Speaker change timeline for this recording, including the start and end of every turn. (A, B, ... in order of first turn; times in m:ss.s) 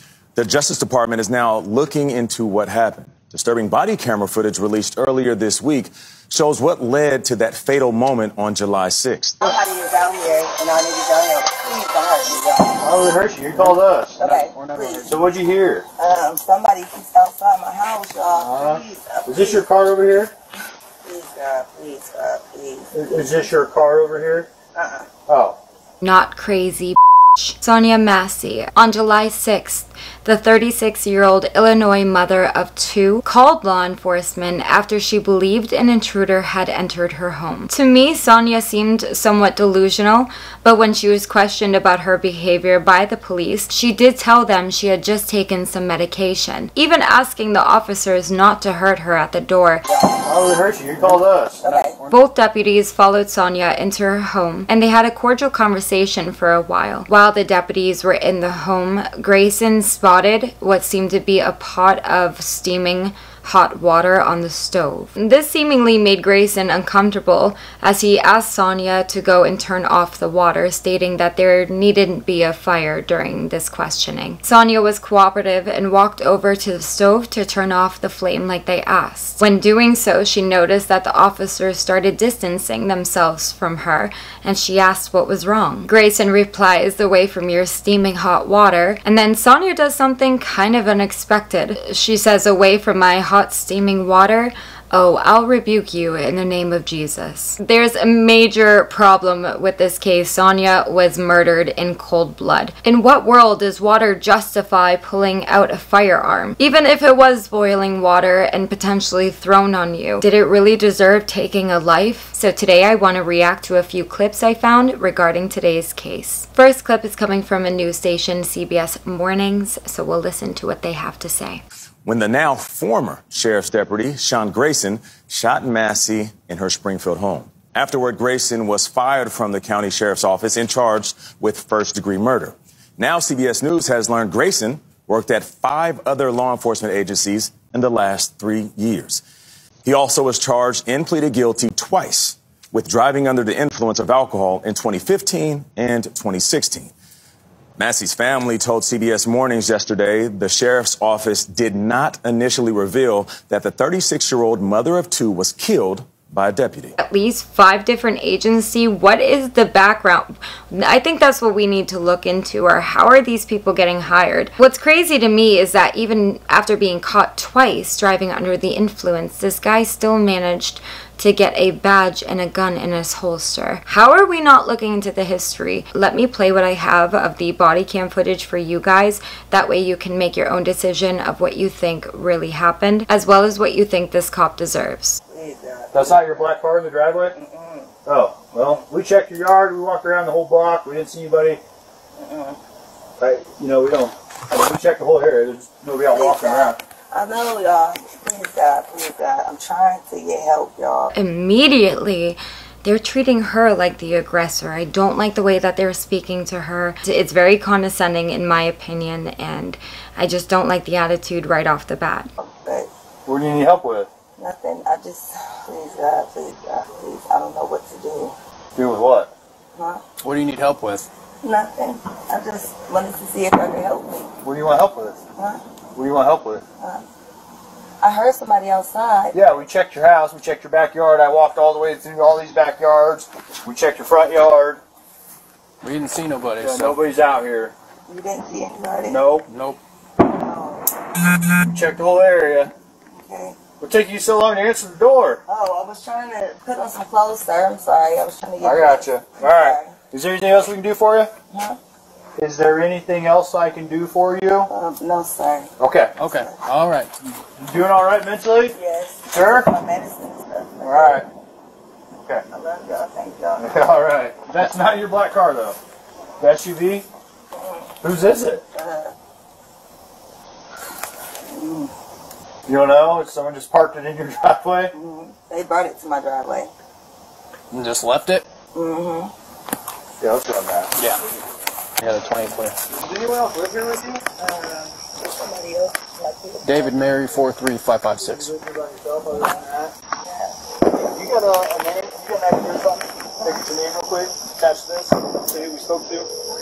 0:00.3-0:09.4 A
0:09.4-0:12.7 B
0:12.8-0:14.4 C
0:14.2-0:15.0 B
0:14.2-0:15.2 D
0:15.0-0:15.9 C
0:16.0-0:19.3 B
0:18.3-0:20.3 C
0:21.0-0:22.9 B
0:22.9-0:24.5 C
0:24.8-0:25.1 B
0:25.3-0:25.6 C
0:26.0-0:49.8 E
0:50.3-0:51.6 C
0:51.6-0:52.0 B
0:51.7-0:52.1 D
0:52.1-2:01.6 E
2:02.0-2:19.2 A
2:19.8-2:26.9 A
2:27.8-2:36.9 A
2:37.0-3:05.2 E
3:05.3-3:05.9 B
3:05.9-3:07.3 C
3:07.3-3:07.9 B
3:08.0-3:11.6 C
3:12.2-3:12.6 B
3:13.2-3:16.8 C
3:16.1-3:16.7 E
3:17.1-3:21.1 B
3:21.1-3:32.3 E
3:32.4-3:32.9 B
3:33.2-3:34.1 C
3:34.4-3:38.3 B
3:34.6-3:35.2 E
3:36.4-3:36.9 E
3:38.7-3:39.3 C
3:40.2-3:41.1 D
3:41.4-3:44.3 B
3:42.5-3:42.8 E
3:44.4-3:45.2 C
3:45.9-3:46.6 C
3:48.0-3:48.6 E
3:48.0-3:49.3 B
3:49.3-3:54.8 C
3:55.8-3:57.0 D
3:56.6-3:57.7 C
3:58.1-3:59.2 E
3:58.1-3:59.0 B
3:59.1-3:59.4 C
3:59.4-3:59.8 D
4:00.4-4:00.8 E
4:01.6-4:02.7 C
4:03.2-4:03.6 B
4:03.8-4:05.4 C
4:05.5-4:08.6 B
4:05.8-4:09.7 E
4:08.6-4:11.3 C
4:09.5-4:09.9 B
4:12.4-4:14.7 C
4:14.7-4:15.7 E
4:14.7-4:15.7 B
4:15.8-4:16.1 C
4:16.2-4:17.1 D
4:17.6-4:18.8 C
4:18.7-4:20.9 B
4:19.3-4:19.7 C
4:20.8-4:21.3 C
4:22.5-4:23.7 B
4:23.6-4:25.8 C
4:26.4-4:27.0 C
4:27.6-4:27.9 B
4:28.0-4:28.6 C
4:28.8-4:29.1 B
4:31.5-4:31.9 B
4:32.7-4:34.9 C
4:35.0-4:36.7 B
4:35.6-4:36.6 E
4:37.7-4:38.5 D
4:38.7-4:39.3 E
4:38.8-4:39.3 B
4:40.2-4:40.9 C
4:41.0-4:41.2 D
4:42.0-4:42.8 D
4:42.9-4:44.2 C
4:44.4-4:46.8 B
4:46.6-4:48.5 D
4:48.4-4:49.9 C
4:50.2-4:50.5 B
4:50.9-4:56.3 C